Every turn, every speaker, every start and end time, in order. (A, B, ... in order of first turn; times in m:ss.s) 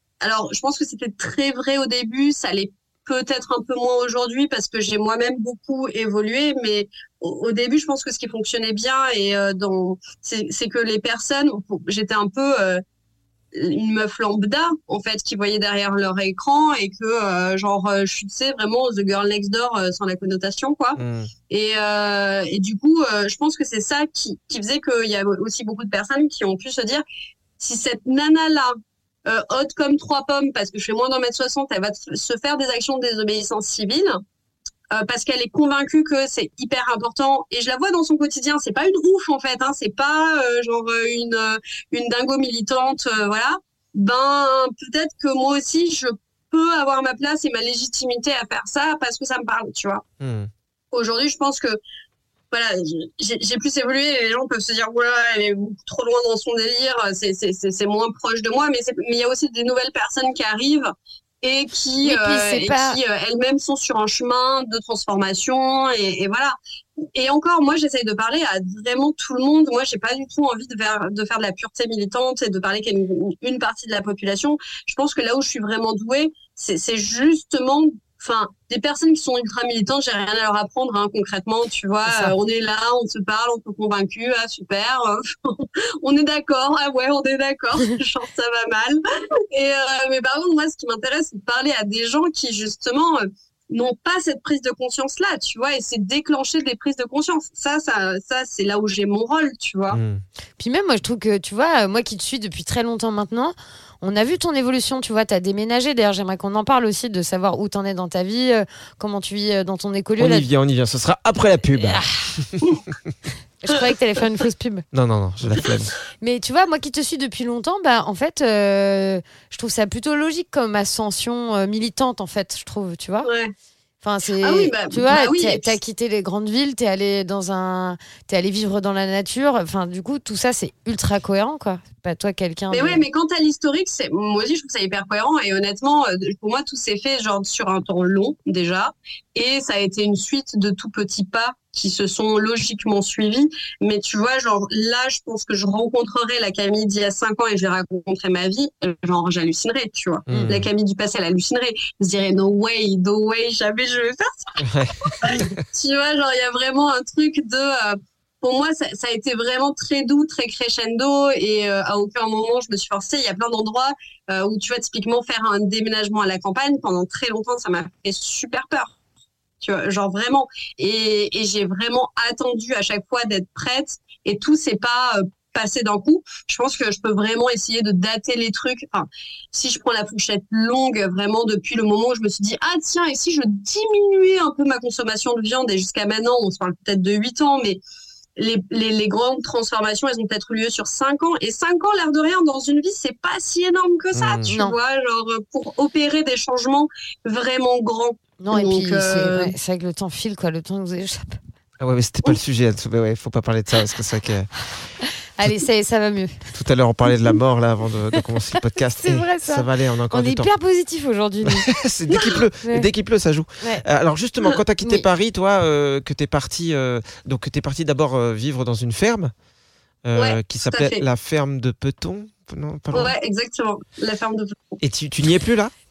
0:00.2-0:12.8 A
0:13.5-0:21.0 A
0:21.0-0:21.3 B
0:21.5-0:27.0 A
0:27.6-0:28.7 A
0:29.2-0:34.2 A
0:34.9-0:50.0 A
0:50.2-0:50.5 B
0:50.9-0:51.8 A
0:52.5-1:06.6 A
1:02.0-1:03.0 C
1:07.1-1:29.0 A
1:22.0-1:22.3 C
1:29.5-1:40.0 A
1:39.9-1:40.2 B
1:40.6-1:50.5 C
1:50.2-1:52.6 B
1:51.8-1:52.3 C
1:53.6-1:54.8 C
1:54.9-1:55.9 B
1:56.2-2:03.3 C
2:03.2-2:03.5 A
2:04.0-2:13.0 C
2:04.4-2:05.8 A
2:12.7-2:34.5 A
2:30.3-2:30.7 B
2:34.6-2:35.5 B
2:35.2-2:48.9 A
2:49.6-3:07.8 A
3:08.4-3:19.5 A
3:14.1-3:14.5 B
3:14.5-3:14.7 C
3:18.4-3:21.4 C
3:21.8-3:24.5 B
3:25.4-3:26.4 C
3:26.5-3:30.5 B
3:29.0-3:31.7 C
3:31.4-3:39.3 B
3:40.0-3:43.1 B
3:40.1-3:41.0 A
3:42.9-3:44.8 A
3:44.8-3:45.7 B